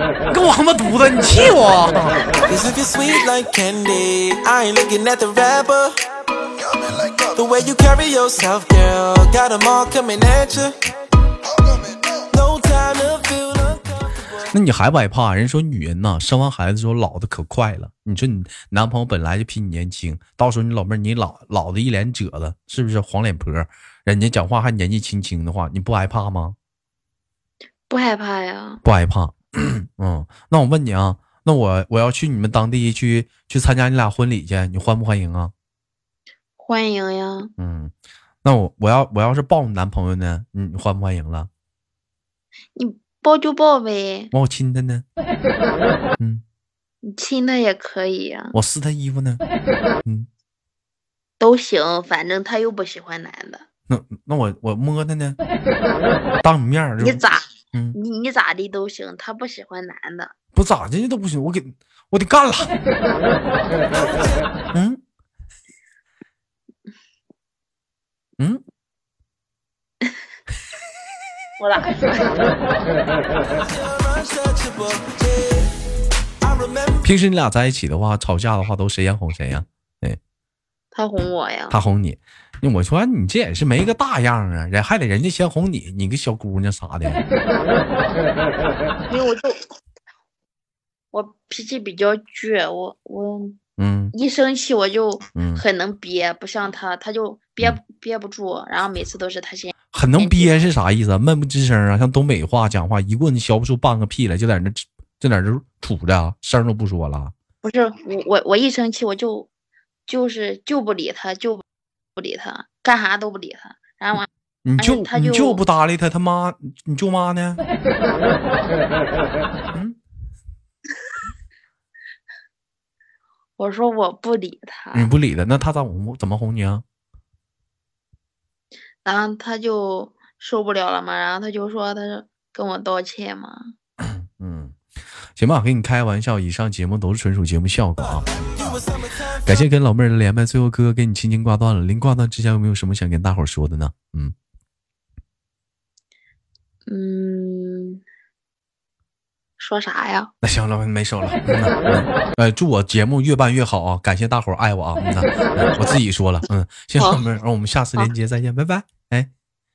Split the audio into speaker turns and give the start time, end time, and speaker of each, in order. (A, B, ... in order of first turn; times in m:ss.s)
0:00.3-0:02.3 A
0:02.5-0:06.0 B
0:07.1-0:10.8 B
0:12.2-0:14.3 B
0:14.4-0:26.6 A
0:27.9-0:28.8 C
0:28.8-0:35.5 A
0:36.6-0:37.5 C
0:37.6-0:37.9 A
0:38.4-0:41.5 A
0:42.7-0:44.3 C
0:44.3-0:45.0 A
0:47.0-0:48.6 C
0:48.5-0:49.4 A
0:51.4-0:53.6 C
0:53.9-0:55.4 A
0:56.4-0:57.2 A
0:57.0-1:00.3 C
1:00.5-1:02.7 A
1:03.9-1:04.4 B
1:04.7-1:05.0 A
1:11.6-1:12.5 C
1:13.6-1:15.7 B
1:16.4-1:17.0 B
1:17.0-1:20.2 A
1:20.9-1:21.8 C
1:21.7-1:27.2 A
1:29.1-1:29.6 C
1:31.1-1:33.6 C
1:33.8-1:34.1 A
1:34.1-1:40.7 C
1:35.3-1:35.6 A
1:39.9-1:47.3 A
1:47.6-1:49.5 C
1:50.1-1:51.6 C
1:52.2-1:54.3 C
1:54.6-1:57.6 A
1:54.8-1:55.6 C
1:59.7-2:00.0 A
2:03.6-2:05.1 C
2:04.9-2:06.8 A
2:09.0-2:13.7 C
2:14.0-2:14.8 A
2:15.4-2:18.8 A
2:18.6-2:18.9 B
2:19.4-2:24.3 A
2:26.9-2:28.0 C
2:29.6-2:30.3 C
2:30.4-2:39.3 A
2:37.0-2:37.2 C